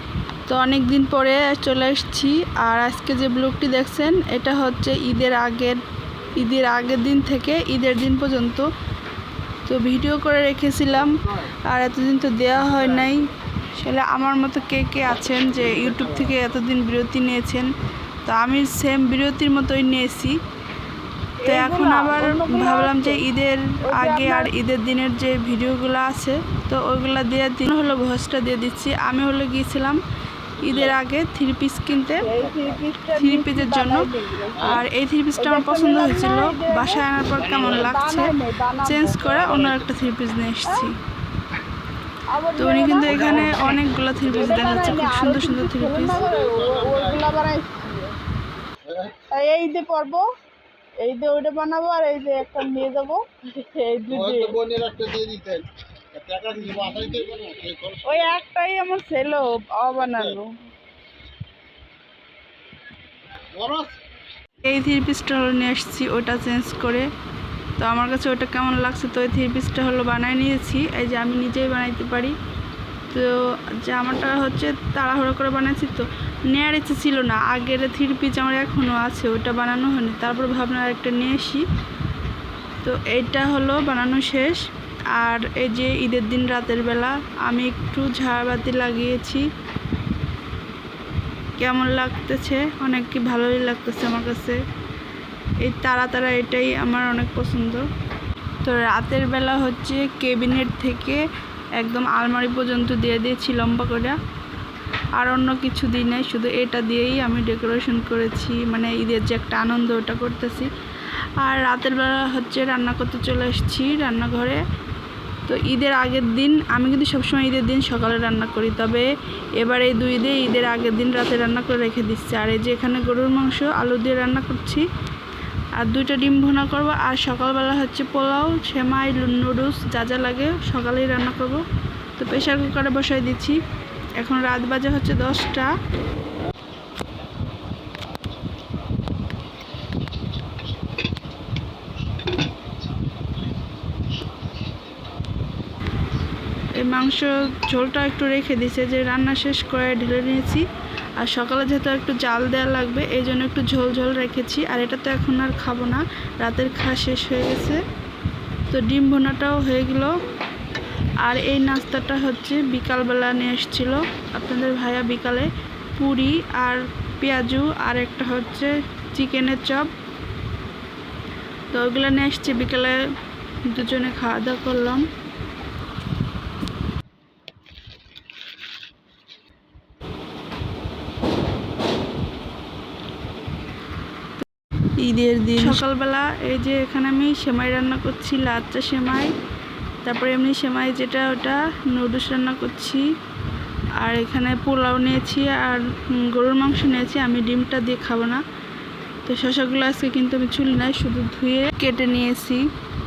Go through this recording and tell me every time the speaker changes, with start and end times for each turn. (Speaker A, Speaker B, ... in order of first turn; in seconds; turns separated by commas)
Speaker A: 0.5-5.8, Speaker A: 6.4-8.7, Speaker A: 9.7-17.7, Speaker B: 15.8-16.1, Speaker A: 18.2-20.4, Speaker C: 21.4-23.2, Speaker A: 21.4-30.0, Speaker C: 23.8-24.5, Speaker A: 30.6-32.3, Speaker B: 30.6-30.9, Speaker C: 32.2-34.8, Speaker B: 32.3-32.8, Speaker A: 33.1-41.0, Speaker C: 35.4-37.0, Speaker B: 37.4-37.8, Speaker C: 37.6-39.3, Speaker B: 39.4-40.0, Speaker C: 42.3-43.7, Speaker A: 42.6-46.2, Speaker B: 43.1-43.7, Speaker B: 44.2-44.8, Speaker C: 44.4-48.2, Speaker B: 46.3-47.3, Speaker B: 48.9-49.3, Speaker C: 49.3-50.3, Speaker C: 51.0-54.6, Speaker B: 54.1-58.2, Speaker C: 58.0-60.6, Speaker B: 63.5-64.0, Speaker A: 64.6-67.1, Speaker A: 67.8-72.4, Speaker A: 73.1-81.7, Speaker A: 82.8-89.5, Speaker A: 91.6-94.6, Speaker A: 95.6-97.9, Speaker A: 98.6-101.2, Speaker A: 101.8-104.2, Speaker A: 105.2-110.7, Speaker A: 111.4-114.6, Speaker A: 115.5-124.8, Speaker A: 125.8-131.7, Speaker A: 132.2-133.6, Speaker A: 134.2-135.8, Speaker A: 146.8-150.7, Speaker A: 151.2-157.8, Speaker A: 158.7-160.2, Speaker A: 161.2-169.9, Speaker A: 171.7-173.1, Speaker A: 173.7-175.1, Speaker A: 185.1-189.3, Speaker A: 190.0-193.0, Speaker A: 194.0-198.4, Speaker A: 199.3-202.7